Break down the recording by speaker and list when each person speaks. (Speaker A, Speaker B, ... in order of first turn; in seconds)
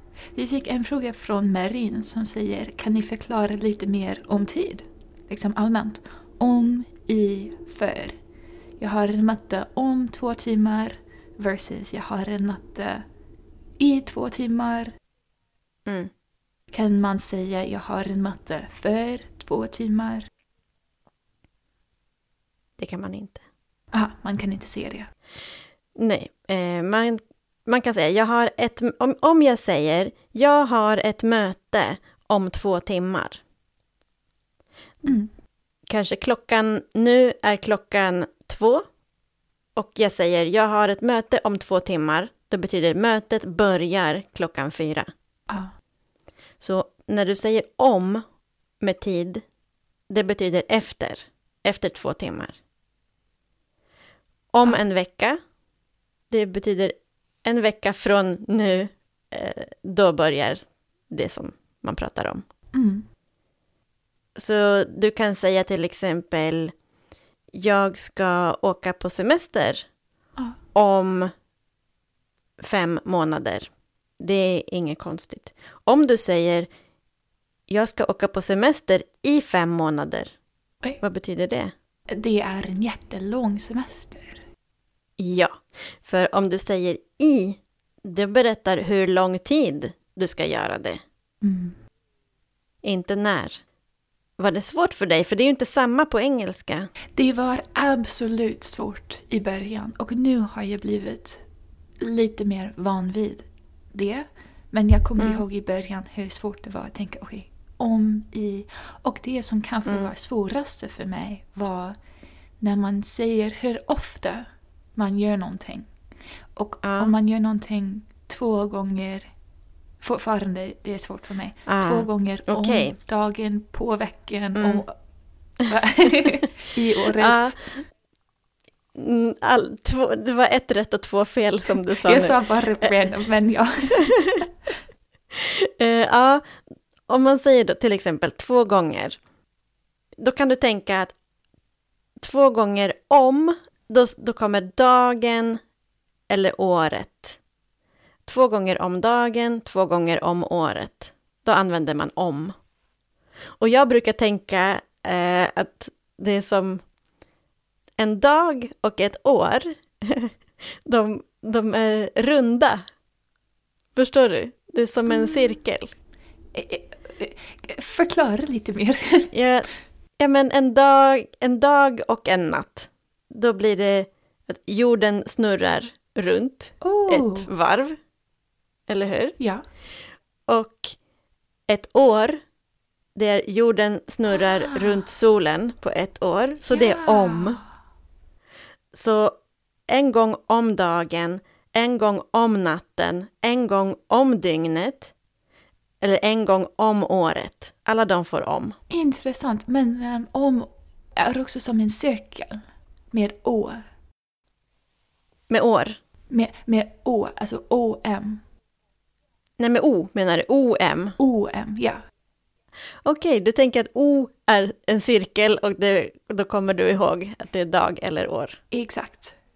Speaker A: 0.3-8.2, 8.8-13.1, 13.8-14.9, 16.7-20.3, 23.9-25.1, 35.0-35.3, 62.7-63.0, 82.1-84.4, 91.4-91.8, 97.1-101.4, 102.0-112.0, 112.6-115.9, 116.5-119.3, 120.0-124.9, 125.7-127.6, 131.9-134.3, 165.1-165.5, 166.5-169.3, 176.8-177.5, 179.4-179.6, 184.4-184.9, 186.7-187.7, 198.9-203.8, 206.3-208.4, 211.2-212.0, 218.7-219.3
Speaker B: 15.8-16.1, 22.8-23.4, 25.9-33.4, 35.9-38.8, 39.8-45.1, 46.6-48.2, 48.8-49.4, 50.1-52.5, 54.5-55.4, 56.3-62.4, 64.3-66.7, 67.5-69.8, 70.7-71.3, 72.6-76.7, 77.7-80.3, 81.0-81.7, 85.2-91.0, 92.8-93.6, 94.4-96.9, 116.8-117.1, 121.7-123.0, 124.5-124.8, 127.2-127.7, 128.9-132.9, 135.3-136.5, 137.1-139.2, 140.2-141.1, 142.2-145.6, 146.3-147.4, 148.2-152.5, 153.6-156.8, 158.0-162.8, 163.9-165.9, 169.3-169.7, 170.2-178.0, 178.9-179.3, 180.5-180.9, 181.7-182.4, 183.1-187.6, 188.9-189.4, 189.9-195.1, 196.0-198.8, 205.5-206.0, 209.6-211.2, 213.0-218.6